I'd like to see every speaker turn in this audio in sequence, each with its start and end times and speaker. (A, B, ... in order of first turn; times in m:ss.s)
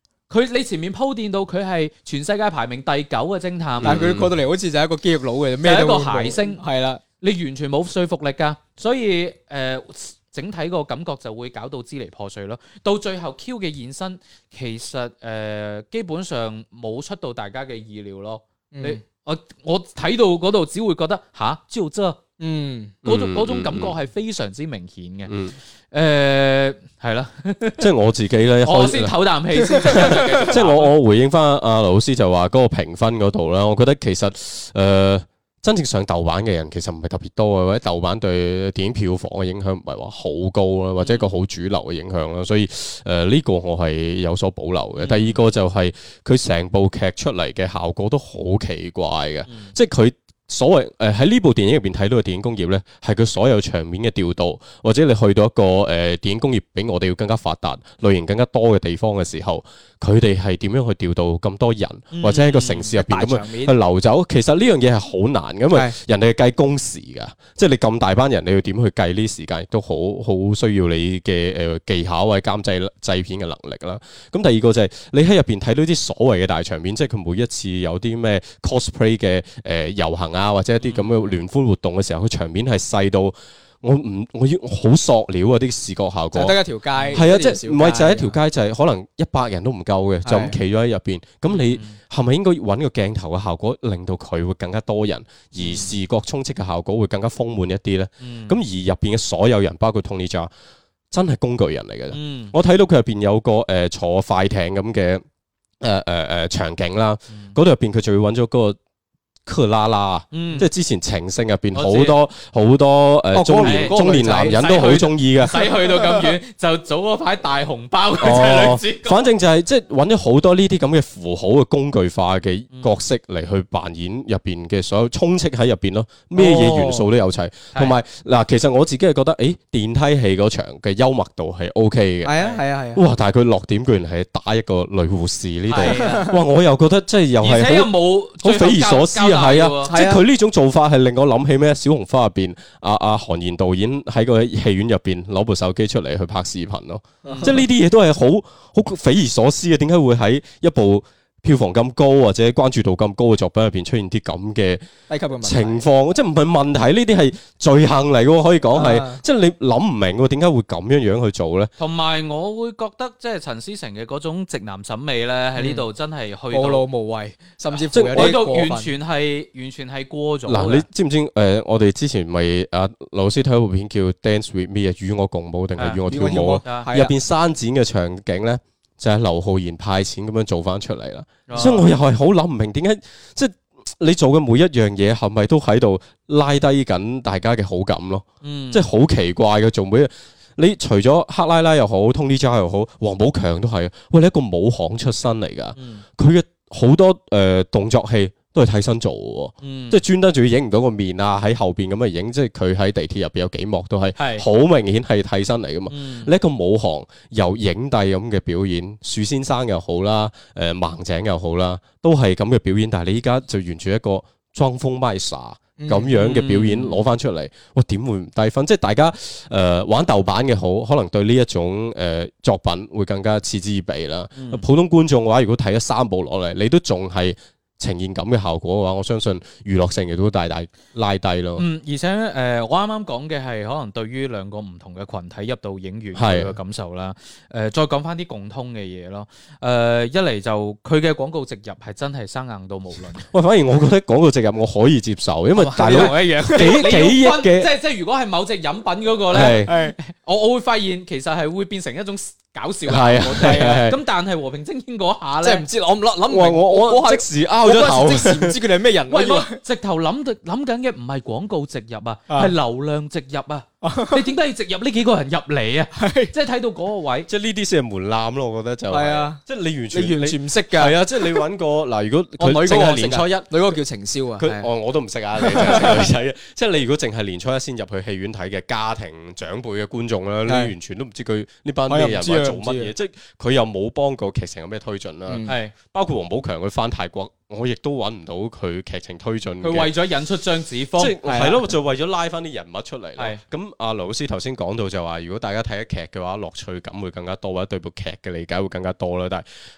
0:00.3-0:04.0 A
0:03.8-0:04.3 B
0:03.8-0:07.0 C
0:05.6-0:06.6 A
0:07.2-0:22.2 A
0:18.7-0:19.0 C
0:22.4-0:23.0 C
0:23.0-0:23.9 B
0:23.0-0:25.3 A
0:25.2-0:25.6 B
0:25.9-0:27.8 A
0:27.8-1:26.6 B
0:28.6-0:31.0 A
0:29.7-0:30.3 C
0:41.0-0:41.3 A
0:45.0-0:45.4 A
0:49.4-0:49.7 A
1:02.1-1:03.7 A
1:20.8-1:21.3 A
1:26.3-1:28.4 C
1:27.0-1:27.2 A
1:27.1-1:40.5 B
1:30.2-1:30.6 C
1:31.5-1:32.0 A
1:35.6-1:35.9 A
1:38.2-1:38.6 A
1:41.1-1:45.2 B
1:42.1-1:42.5 A
1:45.8-1:48.8 B
1:49.4-1:55.7 B
1:50.3-1:50.7 A
1:51.7-1:52.2 A
1:53.3-1:54.7 C
1:53.6-1:59.2 A
1:56.0-1:56.3 C
1:58.2-2:12.4 B
2:02.7-2:03.0 A
2:06.3-2:07.1 C
2:12.2-2:13.0 C
2:12.4-2:12.6 A
2:12.9-2:34.8 B
2:15.7-2:16.3 A
2:15.7-2:16.4 C
2:17.4-2:19.9 A
2:19.9-2:20.2 C
2:27.2-2:27.5 A
2:27.2-2:27.6 C
2:35.1-2:35.8 C
2:35.4-2:41.7 B
2:38.7-2:39.2 C
2:41.8-2:46.8 A
2:45.6-2:45.8 C
2:46.5-2:48.9 C
2:47.9-2:48.4 B
2:48.1-2:50.8 A
2:50.5-3:51.6 B
2:55.8-2:56.0 A
2:56.1-2:57.1 C
3:01.5-3:01.9 A
3:08.4-3:08.8 A
3:15.8-3:16.0 A
3:19.6-3:20.0 A
3:24.2-3:24.4 A
3:25.9-3:26.3 A
3:35.8-3:36.1 C
3:36.1-3:37.0 A
3:44.3-3:44.6 A
3:51.6-4:03.2 A
3:56.1-3:56.6 B
4:03.3-4:07.7 B
4:05.5-4:07.0 C
4:05.8-4:15.6 A
4:09.3-4:09.7 B
4:09.4-4:10.0 C
4:12.8-4:14.0 B
4:13.2-4:13.9 C
4:15.4-4:19.6 C
4:16.3-4:18.6 B
4:19.1-4:27.3 A
4:23.8-4:24.3 C
4:25.9-4:26.3 C
4:27.3-4:33.8 B
4:28.9-4:29.4 C
4:29.9-4:31.4 C
4:32.4-4:34.7 C
4:34.4-4:49.9 B
4:35.4-4:36.1 C
4:40.4-4:40.7 C
4:41.9-4:42.9 C
4:45.2-4:45.6 C
4:45.5-4:45.7 A
4:49.6-4:51.4 A
4:51.0-4:59.4 B
4:51.2-4:51.6 C